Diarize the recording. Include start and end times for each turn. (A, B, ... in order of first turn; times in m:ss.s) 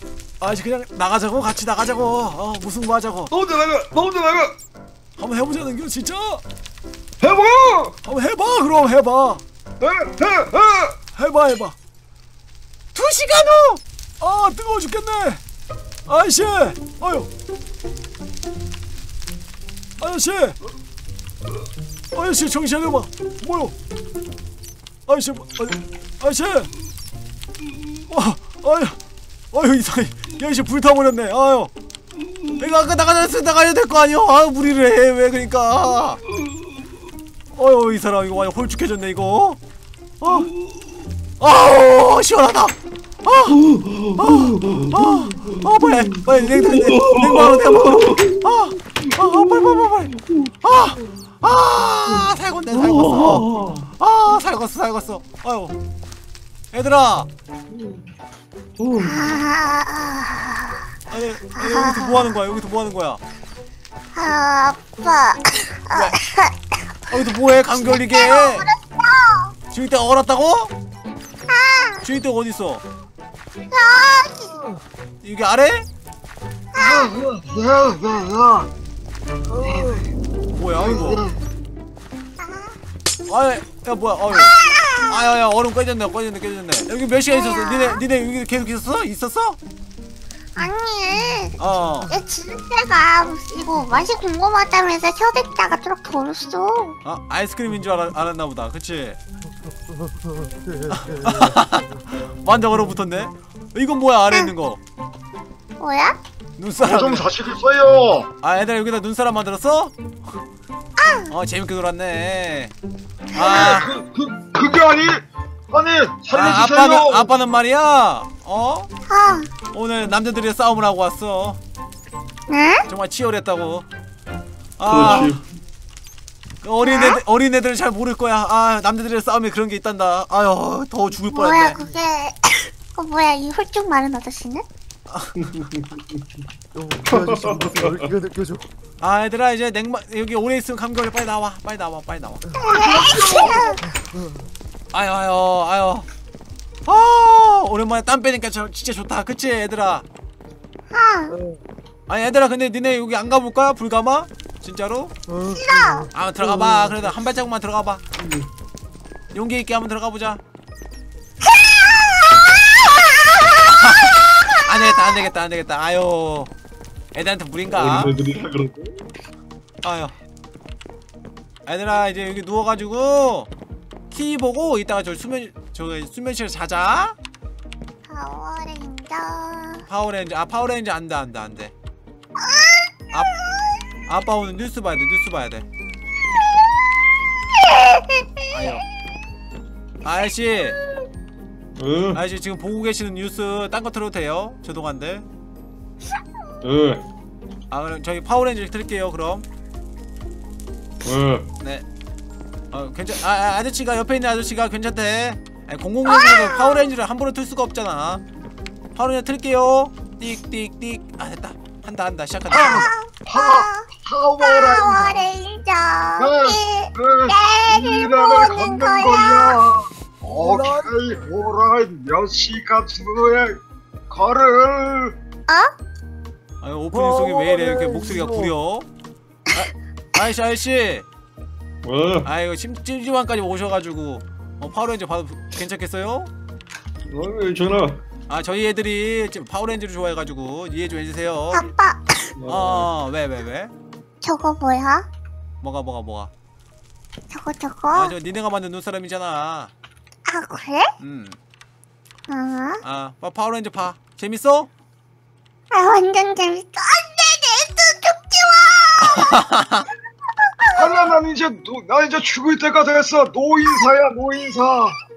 0:00.4-0:03.3 A
0:03.3-0:04.6 B
0:05.2-0:06.4 A
0:07.2-0:08.0 B
0:08.0-0:09.4 A
0:09.8-0:11.0 B
0:11.2-0:11.8 A
0:13.0-0:15.4 A
0:16.1-0:17.3 A
0:20.0-0:20.6 A
0:22.1-0:23.7 A
0:25.1-0:26.7 A
0:28.1-0:29.0 A
0:29.5-0:31.7 A
0:32.2-0:32.6 B
0:32.5-0:36.2 A
0:37.5-0:39.6 A
0:40.2-0:40.5 A
0:40.3-0:41.0 B
0:41.4-0:43.6 A
0:43.5-0:50.5 B
0:44.2-0:55.8 A
0:52.1-0:53.9 B
0:56.7-0:57.3 A
0:57.7-0:58.0 B
0:58.8-0:59.4 B
0:59.0-1:00.9 C
1:01.1-1:03.2 A
1:01.6-1:02.3 C
1:04.1-1:06.7 C
1:05.9-1:06.2 A
1:07.1-1:08.7 A
1:07.8-1:09.6 C
1:09.7-1:10.7 A
1:11.5-1:12.0 C
1:12.0-1:12.8 A
1:13.7-1:14.6 C
1:15.2-1:15.9 A
1:16.8-1:17.1 C
1:16.8-1:18.7 D
1:19.5-1:20.1 E
1:19.6-1:20.0 D
1:20.5-1:21.3 A
1:20.8-1:21.4 D
1:22.4-1:22.8 C
1:23.3-1:29.6 A
1:24.3-1:25.4 C
1:27.3-1:28.0 C
1:30.6-1:37.0 C
1:31.6-1:32.1 A
1:37.0-1:39.2 A
1:39.9-1:41.6 E
1:40.9-1:44.8 A
1:45.8-1:46.2 C
1:46.6-1:47.3 A
1:46.8-1:48.3 D
1:48.4-1:49.9 A
1:51.0-1:51.3 C
1:51.3-1:52.7 A
1:53.3-1:53.8 C
1:53.3-1:53.9 A
1:53.4-1:57.3 D
1:56.3-1:58.9 A
1:59.1-1:59.5 C
1:59.7-2:01.6 A
2:02.5-2:02.9 C
2:02.9-2:03.9 A
2:04.8-2:05.4 A
2:04.9-2:05.4 B
2:06.6-2:11.8 A
2:06.8-2:07.2 C
2:11.3-2:14.6 C
2:15.5-2:16.2 B
2:16.7-2:18.7 E
2:17.1-2:18.0 B
2:19.0-2:22.5 A
2:22.5-2:24.4 E
2:22.6-2:23.8 C
2:22.6-2:23.8 D
2:24.9-2:26.1 A
2:26.9-2:30.0 A
2:30.9-2:31.4 C
2:31.3-2:31.6 E
2:32.1-2:35.1 A
2:35.3-2:37.1 E
2:35.5-2:36.1 C
2:36.1-2:38.0 A
2:38.2-2:38.5 B
2:39.3-2:40.4 A
2:41.6-2:43.2 C
2:43.6-2:46.5 A
2:47.1-2:48.2 A
2:47.7-2:49.0 B
2:49.8-2:50.1 A
2:51.7-2:53.5 A
2:54.1-2:57.2 A
2:58.1-2:59.8 C
2:59.9-3:01.7 A
3:02.4-3:02.9 C
3:03.1-3:03.4 A
3:04.1-3:05.7 A
3:07.6-3:08.5 C
3:08.5-3:08.8 A
3:10.0-3:10.8 A
3:11.8-3:12.2 B
3:12.1-3:15.3 A
3:16.6-3:17.0 B
3:17.7-3:19.4 A
3:21.0-3:21.5 B
3:22.7-3:28.2 A
3:26.0-3:26.9 C
3:29.0-3:32.9 A
3:32.5-3:33.9 C
3:33.3-3:35.3 D
3:34.4-3:39.7 C
3:36.2-3:45.2 D
3:40.2-3:40.9 E
3:45.5-3:45.7 C
3:46.6-3:48.9 A
3:46.9-3:48.5 E
3:49.5-3:51.1 A
3:51.8-3:52.3 B
3:52.2-3:56.3 A
3:57.1-3:58.0 B
3:58.3-4:01.7 A
4:01.5-4:02.3 C
4:02.4-4:02.9 B
4:02.5-4:03.7 A
4:04.2-4:05.1 C
4:05.6-4:06.3 A
4:07.3-4:08.1 C
4:07.9-4:09.7 A
4:10.3-4:10.9 C
4:11.0-4:11.4 A
4:12.3-4:12.8 C
4:12.8-4:14.7 A
4:15.7-4:19.4 C
4:19.0-4:19.9 A
4:20.6-4:21.0 C
4:20.7-4:25.0 D